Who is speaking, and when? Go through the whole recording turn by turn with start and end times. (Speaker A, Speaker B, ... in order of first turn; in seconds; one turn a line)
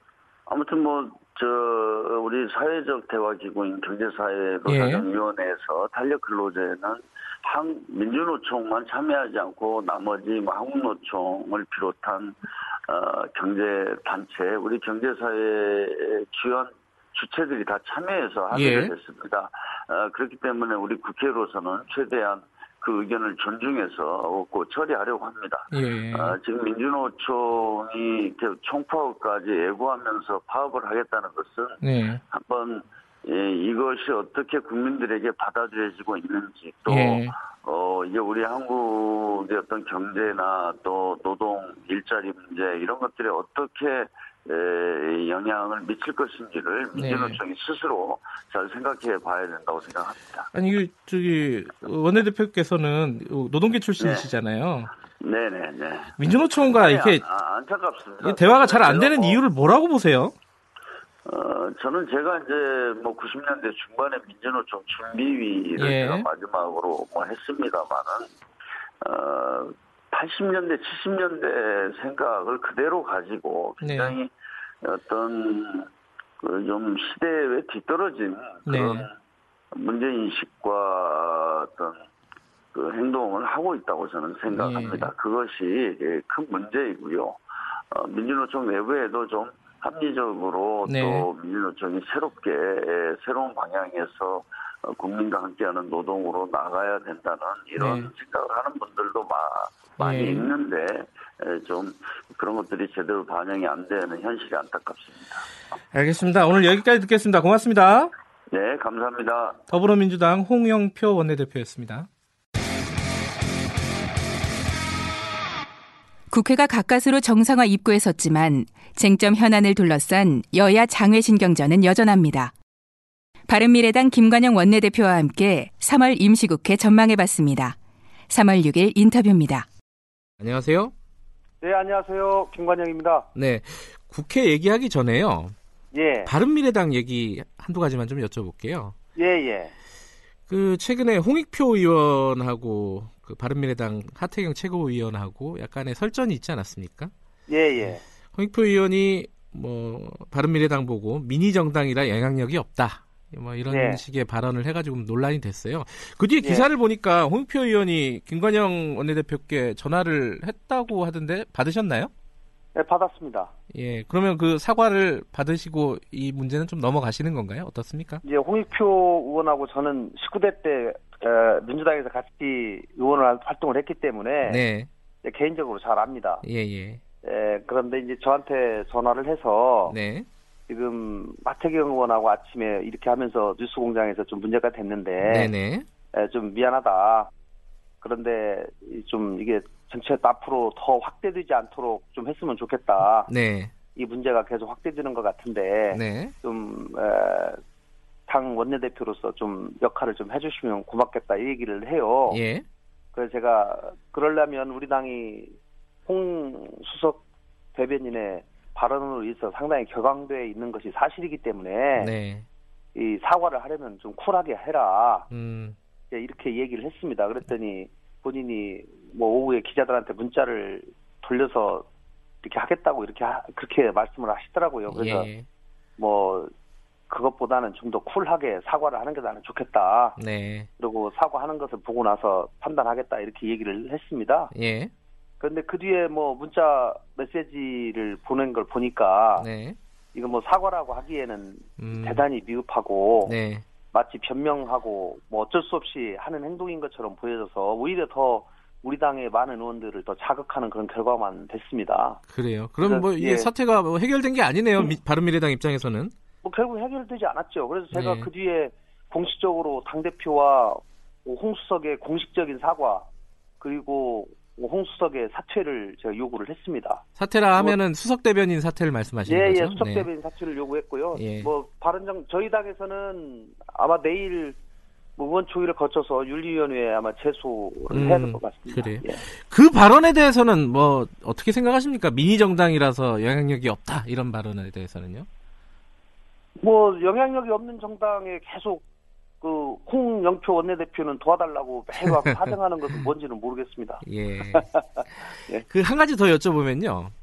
Speaker A: 0.5-50.5
Speaker B: 4.7-5.0
Speaker B: 18.5-18.9
Speaker B: 25.7-26.4
Speaker B: 31.8-32.2
Speaker B: 36.9-37.3
Speaker B: 47.0-47.4
Speaker B: 50.5-54.9
Speaker A: 54.0-54.2
Speaker A: 55.2-59.4
Speaker B: 56.2-57.2
Speaker B: 58.2-60.3
Speaker A: 61.3-68.3
Speaker B: 65.8-66.3
Speaker A: 69.0-74.3
Speaker B: 73.8-74.2
Speaker A: 74.8-79.1
Speaker B: 78.7-79.1
Speaker A: 79.7-82.0
Speaker A: 82.7-87.4
Speaker B: 84.5-85.1
Speaker A: 87.9-105.5
Speaker B: 90.9-91.3
Speaker B: 97.8-98.1
Speaker B: 100.0-100.5
Speaker B: 105.9-108.1
Speaker A: 108.5-109.6
Speaker B: 109.7-112.1
Speaker C: 116.3-122.5
Speaker C: 123.5-127.8
Speaker C: 128.3-129.7
Speaker B: 130.4-130.9
Speaker D: 131.6-133.3
Speaker B: 133.4-135.5
Speaker D: 135.9-136.3
Speaker B: 136.3-138.9
Speaker D: 139.2-139.7
Speaker B: 140.5-147.1
Speaker D: 147.5-148.0
Speaker B: 148.3-162.1
Speaker D: 153.7-154.0
Speaker D: 162.8-163.5
Speaker B: 163.7-168.2
Speaker D: 168.2-174.6
Speaker B: 174.4-174.9
Speaker D: 175.2-176.4
Speaker B: 176.4-177.0
Speaker D: 177.2-180.0
Speaker B: 179.9-180.3
Speaker D: 180.7-185.5
Speaker B: 185.2-185.9
Speaker D: 186.1-187.3
Speaker D: 188.0-193.3
Speaker B: 193.3-193.7
Speaker D: 193.9-197.6
Speaker B: 195.9-196.3
Speaker D: 198.3-202.4
Speaker B: 202.3-202.7
Speaker D: 203.2-205.5
Speaker D: 206.1-207.2
Speaker D: 207.8-212.1
Speaker B: 212.0-212.5
Speaker D: 212.9-215.3
Speaker B: 215.3-215.8
Speaker D: 216.1-221.9
Speaker D: 222.4-225.3
Speaker B: 224.9-225.5
Speaker D: 226.0-226.5
Speaker D: 227.1-230.2
Speaker B: 230.2-230.7
Speaker D: 230.8-234.5
Speaker B: 234.5-234.9
Speaker D: 235.4-239.5
Speaker B: 239.4-239.8
Speaker D: 240.2-243.3
Speaker B: 241.8-242.2
Speaker B: 243.2-243.6
Speaker D: 243.9-252.2
Speaker B: 252.3-256.1
Speaker D: 252.8-253.5
Speaker D: 256.4-263.1
Speaker B: 257.9-258.3
Speaker D: 263.6-267.0
Speaker B: 267.2-270.1
Speaker D: 269.3-274.6
Speaker B: 271.2-271.5
Speaker D: 275.2-279.2
Speaker B: 277.9-285.3
Speaker D: 286.6-288.8
Speaker D: 289.4-294.8
Speaker B: 294.1-294.6
Speaker B: 295.7-297.1